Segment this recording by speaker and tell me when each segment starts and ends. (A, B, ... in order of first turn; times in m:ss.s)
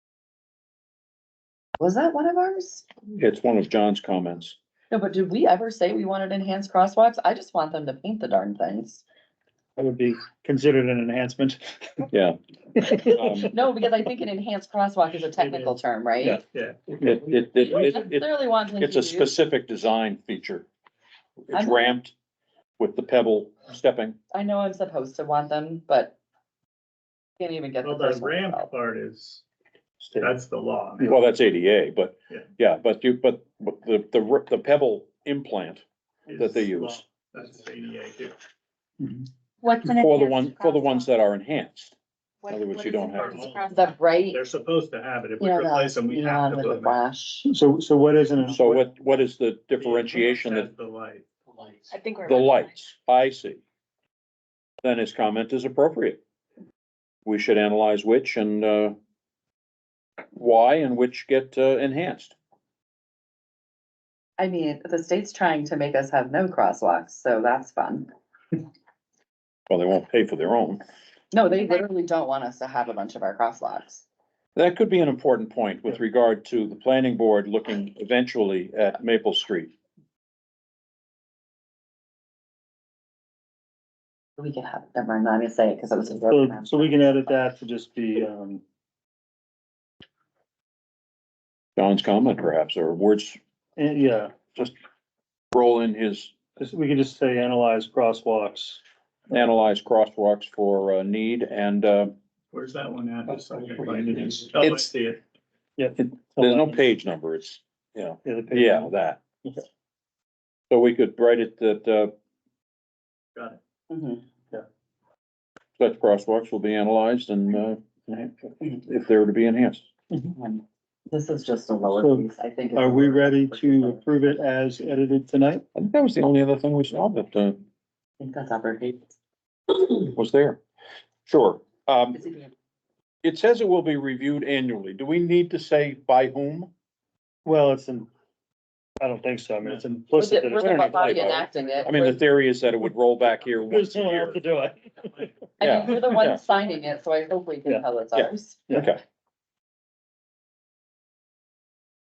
0:01.8-0:02.8 A
0:03.2-0:04.6 B
0:04.9-0:09.0 A
0:09.8-0:12.1 C
0:12.1-0:12.4 B
0:12.7-0:13.5 C
0:13.1-0:13.5 B
0:13.5-0:16.4 A
0:16.3-0:16.8 D
0:17.0-0:18.3 B
0:17.7-0:19.3 A
0:18.8-0:20.7 B
0:21.5-0:22.1 B
0:21.5-0:21.9 A
0:22.8-0:24.2 B
0:24.3-0:26.2 A
0:27.4-0:28.7 A
0:27.8-0:29.4 D
0:30.0-0:30.3 C
0:30.2-0:31.2 D
0:31.0-0:35.8 B
0:36.3-0:38.4 D
0:36.4-0:37.0 B
0:39.6-0:41.1 E
0:39.9-0:42.0 B
0:42.4-0:44.3 E
0:42.5-0:43.5 B
0:43.2-0:43.7 D
0:43.7-0:44.4 A
0:44.3-0:47.0 D
0:45.4-0:47.5 A
0:47.4-0:48.9 C
0:48.5-0:50.7 B
0:49.8-0:51.3 D
0:51.9-0:52.8 E
0:52.2-0:53.6 B
0:54.8-0:56.2 B
0:57.2-0:59.0 B
1:00.3-1:02.4 B
1:04.4-1:08.1 A
1:09.7-1:10.8 B
1:11.3-1:14.0 A
1:14.5-1:19.7 B
1:24.4-1:27.0 A
1:26.3-1:28.6 C
1:31.8-1:33.4 B
1:33.8-1:34.3 C
1:35.5-1:36.3 B
1:36.6-1:38.8 C
1:39.3-1:42.1 B
1:42.5-1:45.2 D
1:44.2-1:44.9 B
1:45.8-1:46.8 C
1:46.0-1:49.2 B
1:48.2-1:48.9 C
1:50.7-1:52.1 B
1:53.9-1:54.2 A
1:55.8-1:59.8 B
2:00.4-2:04.0 A
2:01.9-2:05.6 C
2:05.8-2:07.6 B
2:08.2-2:09.1 A
2:10.0-2:10.6 B
2:11.3-2:12.2 B
2:12.2-2:12.5 A
2:13.2-2:16.7 B
2:17.4-2:18.1 C
2:19.0-2:20.9 C
2:20.2-2:22.2 A
2:20.6-2:24.4 B
2:23.7-2:25.3 C
2:25.6-2:26.4 B
2:25.6-2:28.6 A
2:28.2-2:29.0 B